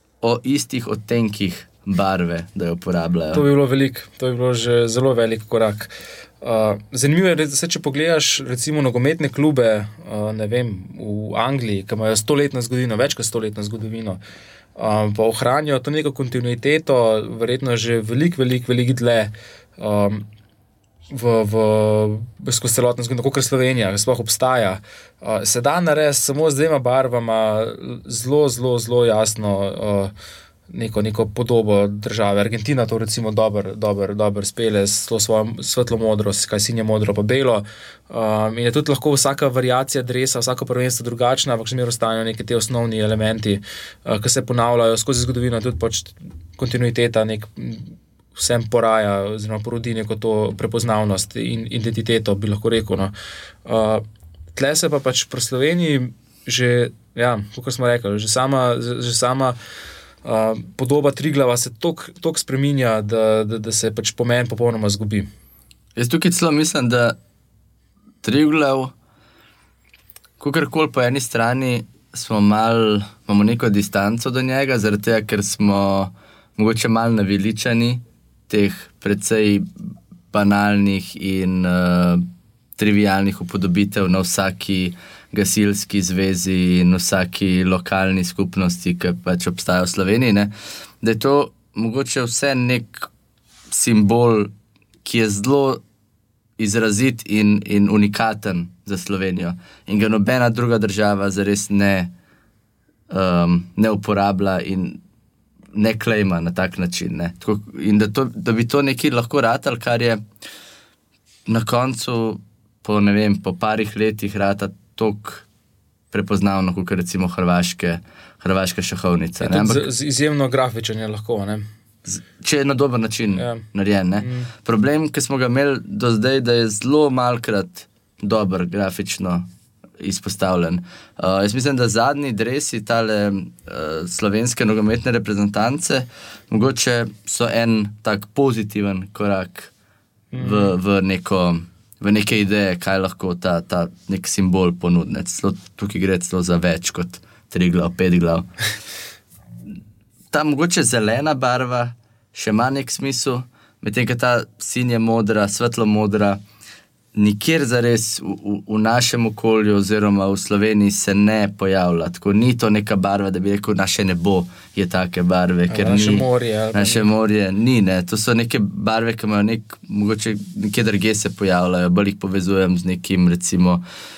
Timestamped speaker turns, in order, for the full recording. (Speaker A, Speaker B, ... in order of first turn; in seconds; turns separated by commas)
Speaker A: 0.2-3.5, Speaker B: 3.3-5.9, Speaker B: 6.4-14.2, Speaker B: 14.8-20.3, Speaker B: 21.1-30.1, Speaker B: 30.7-53.1, Speaker B: 53.6-54.0, Speaker B: 54.5-59.6, Speaker B: 60.2-65.3, Speaker A: 66.0-67.2, Speaker A: 68.2-68.9, Speaker A: 70.4-79.7, Speaker A: 80.3-82.2, Speaker A: 82.8-93.1, Speaker A: 93.7-95.8, Speaker A: 96.6-102.1, Speaker A: 103.1-105.0, Speaker A: 105.7-110.2, Speaker A: 111.5-115.5, Speaker A: 116.1-119.9, Speaker B: 119.4-121.7, Speaker A: 122.0-129.5, Speaker B: 123.3-123.6, Speaker B: 124.2-124.5, Speaker A: 130.0-139.7, Speaker B: 140.3-140.8, Speaker A: 140.4-148.5, Speaker A: 150.3-156.4, Speaker A: 157.1-173.8, Speaker B: 165.7-167.1